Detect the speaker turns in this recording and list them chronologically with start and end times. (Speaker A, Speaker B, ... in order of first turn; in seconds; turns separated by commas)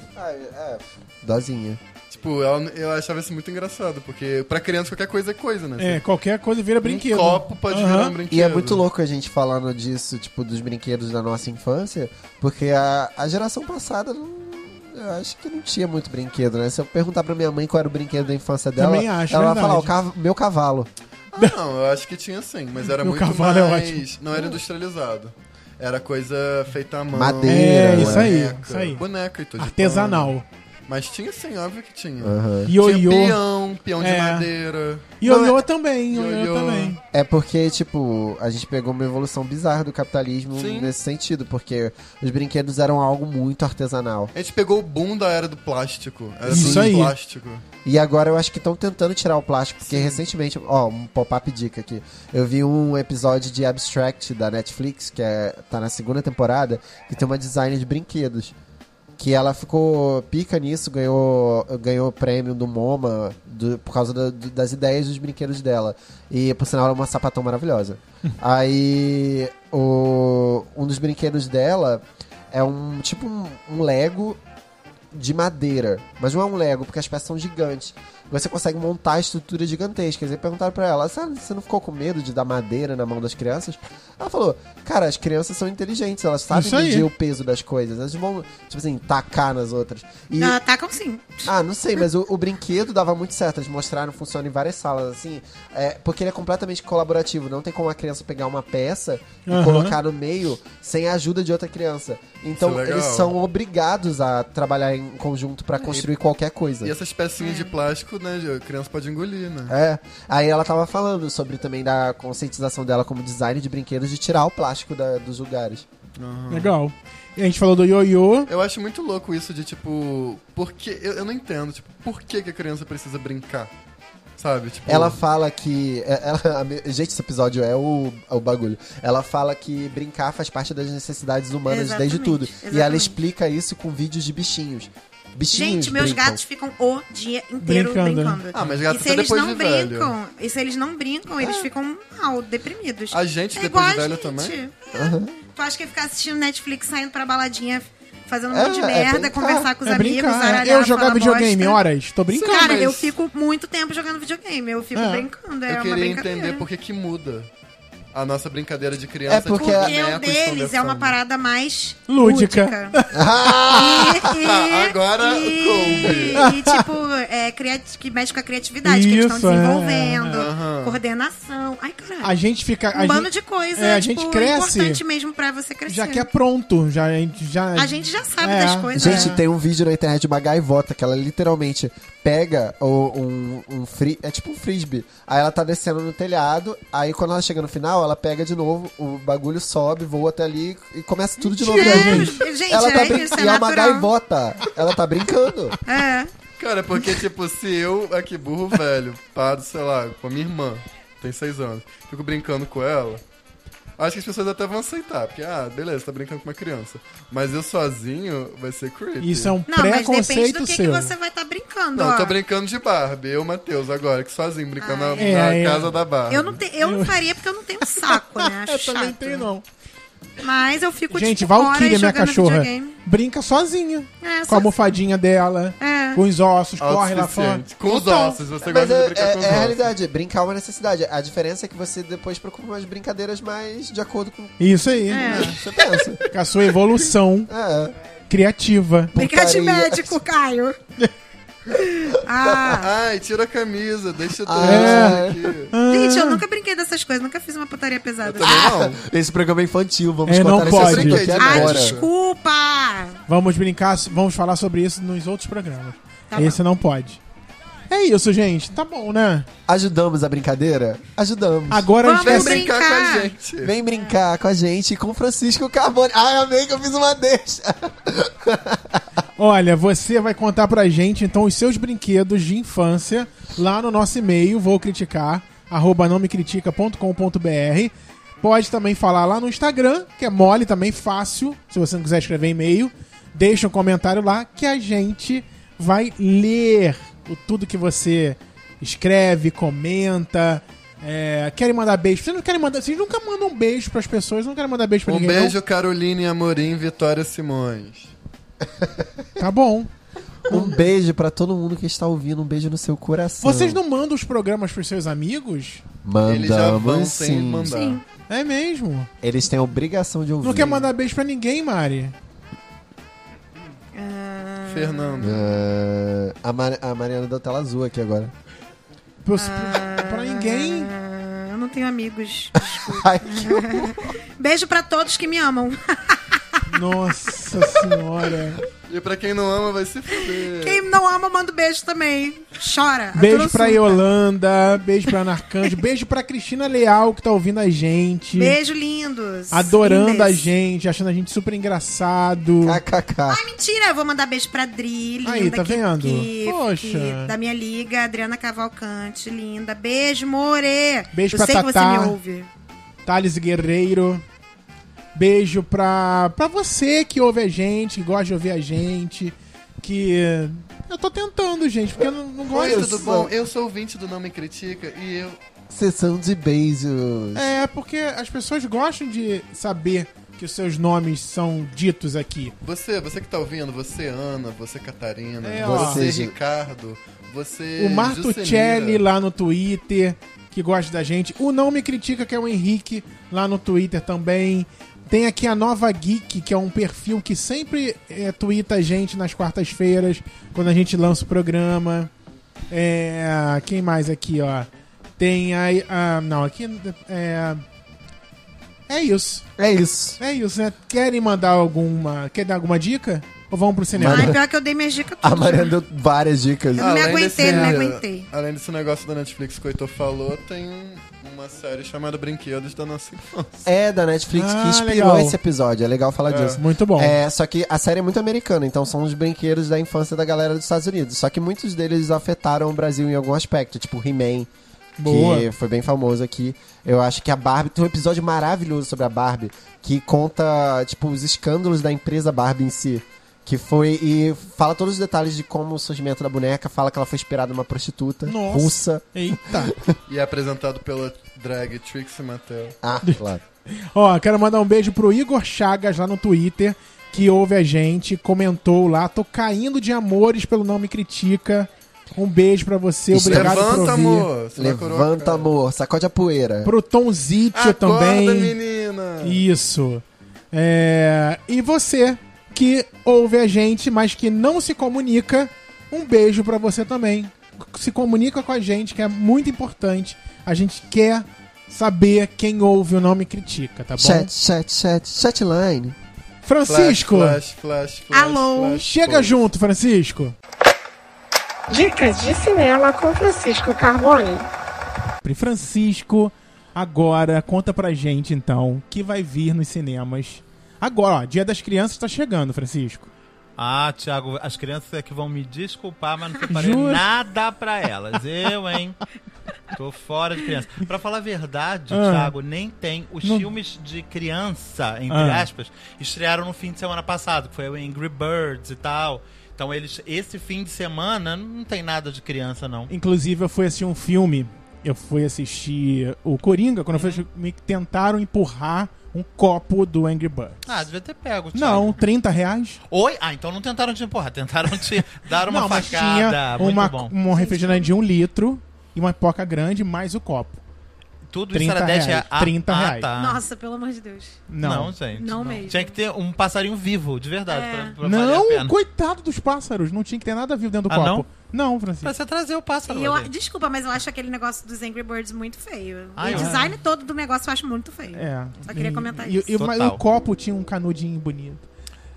Speaker A: 0.1-1.8, Speaker B: 2.1-6.0, Speaker C: 5.8-8.2, Speaker B: 6.8-8.8, Speaker A: 8.3-20.9, Speaker C: 18.8-19.9, Speaker B: 21.3-30.3, Speaker C: 23.0-24.1, Speaker A: 27.1-28.3, Speaker C: 27.5-29.0, Speaker C: 29.6-30.4, Speaker B: 30.9-35.2, Speaker A: 32.2-32.7, Speaker C: 32.7-33.4, Speaker C: 34.0-34.5, Speaker C: 35.2-37.0, Speaker A: 35.2-35.6, Speaker B: 36.1-37.0, Speaker A: 37.1-44.3, Speaker B: 40.5-40.9, Speaker B: 44.3-47.6, Speaker A: 46.5-47.0, Speaker C: 46.5-47.1, Speaker A: 47.8-58.5, Speaker B: 49.8-50.2, Speaker A: 59.2-74.4, Speaker A: 75.1-90.6, Speaker C: 86.5-87.1, Speaker D: 90.4-91.5, Speaker A: 91.5-106.9, Speaker C: 99.5-100.0, Speaker B: 102.6-103.3, Speaker B: 105.8-106.1, Speaker B: 106.8-109.8, Speaker D: 107.4-107.7, Speaker A: 109.7-115.8, Speaker B: 116.2-116.7, Speaker C: 116.5-118.5, Speaker B: 118.5-123.7, Speaker B: 124.4-125.2, Speaker A: 124.9-136.4, Speaker D: 131.7-133.2, Speaker D: 135.5-151.8, Speaker C: 137.6-138.4, Speaker B: 138.5-140.2, Speaker A: 141.4-141.7, Speaker B: 143.1-144.6, Speaker A: 144.9-145.3, Speaker A: 148.5-149.7, Speaker C: 149.8-152.8, Speaker B: 152.3-153.1, Speaker D: 152.4-156.7, Speaker C: 154.9-155.3, Speaker B: 155.7-157.5, Speaker B: 158.1-161.2, Speaker A: 159.3-159.9, Speaker D: 159.6-163.0, Speaker C: 162.1-163.8, Speaker A: 163.1-164.3, Speaker D: 163.7-172.4, Speaker B: 164.2-166.4, Speaker C: 166.3-166.8, Speaker C: 168.8-170.5, Speaker B: 170.3-171.0, Speaker C: 172.2-175.0, Speaker D: 172.9-176.3, Speaker C: 175.9-179.4, Speaker D: 177.8-179.4, Speaker A: 178.9-195.8, Speaker C: 191.6-192.4, Speaker D: 191.7-194.1, Speaker D: 195.9-196.3, Speaker B: 196.6-203.2, Speaker B: 204.0-209.6, Speaker C: 209.2-211.1, Speaker D: 209.7-212.3, Speaker B: 211.9-216.6, Speaker D: 214.8-215.4, Speaker C: 215.2-215.9, Speaker D: 216.3-219.5, Speaker C: 216.8-219.6, Speaker D: 220.4-222.9, Speaker C: 221.1-227.7, Speaker D: 224.2-224.8, Speaker D: 225.8-226.2, Speaker B: 226.8-229.9, Speaker D: 227.9-228.4, Speaker A: 228.6-236.3, Speaker C: 234.6-235.6, Speaker D: 235.1-235.8, Speaker C: 236.3-237.5, Speaker A: 237.5-237.9, Speaker C: 238.3-239.2, Speaker A: 239.1-240.2, Speaker D: 239.2-240.8, Speaker D: 241.7-242.9, Speaker A: 242.3-242.8, Speaker B: 242.7-245.7, Speaker A: 244.4-245.6, Speaker C: 244.6-246.4, Speaker D: 245.9-248.7, Speaker B: 248.2-249.0, Speaker A: 248.4-252.0, Speaker C: 250.3-251.3, Speaker B: 250.6-252.1, Speaker D: 251.4-253.2, Speaker C: 253.3-257.2, Speaker D: 256.3-256.6, Speaker C: 257.9-259.5, Speaker A: 259.7-261.9, Speaker C: 261.7-262.6, Speaker D: 262.0-263.3, Speaker B: 262.2-263.7, Speaker A: 263.6-269.0, Speaker C: 269.4-295.6, Speaker B: 295.1-298.1, Speaker A: 298.8-299.1, Speaker C: 299.4-299.9, Speaker C: 300.5-300.8, Speaker A: 300.5-303.8, Speaker C: 303.4-305.8, Speaker A: 306.0-307.8, Speaker B: 306.3-308.0, Speaker D: 307.7-308.0, Speaker C: 308.3-309.1, Speaker A: 309.2-310.9, Speaker C: 310.4-312.1, Speaker D: 313.9-315.5, Speaker B: 314.7-315.6, Speaker A: 315.2-318.3, Speaker C: 319.2-320.9, Speaker D: 319.4-326.6, Speaker A: 322.6-324.1, Speaker C: 326.7-328.6, Speaker B: 328.9-330.8, Speaker D: 330.2-334.0, Speaker C: 333.1-338.6, Speaker D: 338.3-340.5, Speaker C: 339.5-342.8, Speaker A: 342.6-343.4, Speaker D: 343.3-352.5, Speaker C: 345.2-347.3, Speaker C: 351.1-352.2, Speaker C: 353.1-354.2, Speaker C: 355.1-363.1, Speaker B: 362.5-365.4, Speaker A: 362.5-363.3, Speaker A: 365.7-367.5, Speaker C: 367.4-372.5, Speaker B: 372.6-379.0, Speaker C: 375.4-376.1, Speaker A: 375.6-376.3, Speaker C: 377.8-392.1, Speaker C: 392.7-394.7, Speaker C: 395.2-397.6, Speaker C: 398.9-399.5, Speaker A: 399.6-400.2, Speaker C: 400.2-404.4, Speaker A: 403.9-404.4, Speaker D: 404.1-405.7, Speaker A: 405.2-407.2, Speaker D: 406.8-408.3, Speaker B: 406.8-413.7, Speaker C: 407.4-407.8, Speaker A: 413.6-424.5, Speaker C: 414.4-415.4, Speaker B: 416.3-416.6, Speaker C: 416.6-417.2, Speaker C: 425.0-425.5, Speaker A: 425.1-439.9, Speaker C: 438.3-439.7, Speaker B: 440.1-442.8, Speaker A: 442.8-443.4, Speaker C: 443.0-454.3, Speaker A: 453.1-456.7, Speaker B: 453.3-455.5, Speaker C: 456.6-458.6, Speaker B: 457.5-459.4, Speaker C: 459.2-474.3, Speaker A: 474.0-476.0, Speaker C: 476.4-477.4, Speaker B: 476.7-479.4, Speaker D: 478.1-478.8, Speaker C: 478.7-480.3, Speaker E: 481.7-484.5, Speaker C: 485.2-493.1, Speaker F: 493.6-499.0, Speaker C: 496.5-497.1, Speaker F: 499.7-512.9, Speaker C: 501.9-502.4, Speaker C: 503.2-503.5, Speaker C: 505.1-505.5, Speaker C: 512.9-520.8, Speaker F: 517.0-517.2, Speaker F: 520.7-522.0, Speaker C: 521.5-522.8, Speaker F: 522.9-527.2, Speaker C: 525.5-530.6, Speaker D: 527.3-527.9, Speaker F: 531.3-533.4, Speaker C: 531.5-533.1, Speaker D: 533.2-534.5, Speaker C: 534.5-535.0, Speaker F: 534.6-538.7, Speaker D: 535.1-536.0, Speaker D: 537.5-538.0, Speaker C: 538.0-542.1, Speaker F: 540.9-541.3, Speaker F: 542.0-543.3, Speaker D: 542.9-549.5, Speaker F: 546.2-546.7, Speaker C: 546.3-546.7, Speaker C: 548.1-551.6, Speaker F: 549.6-550.0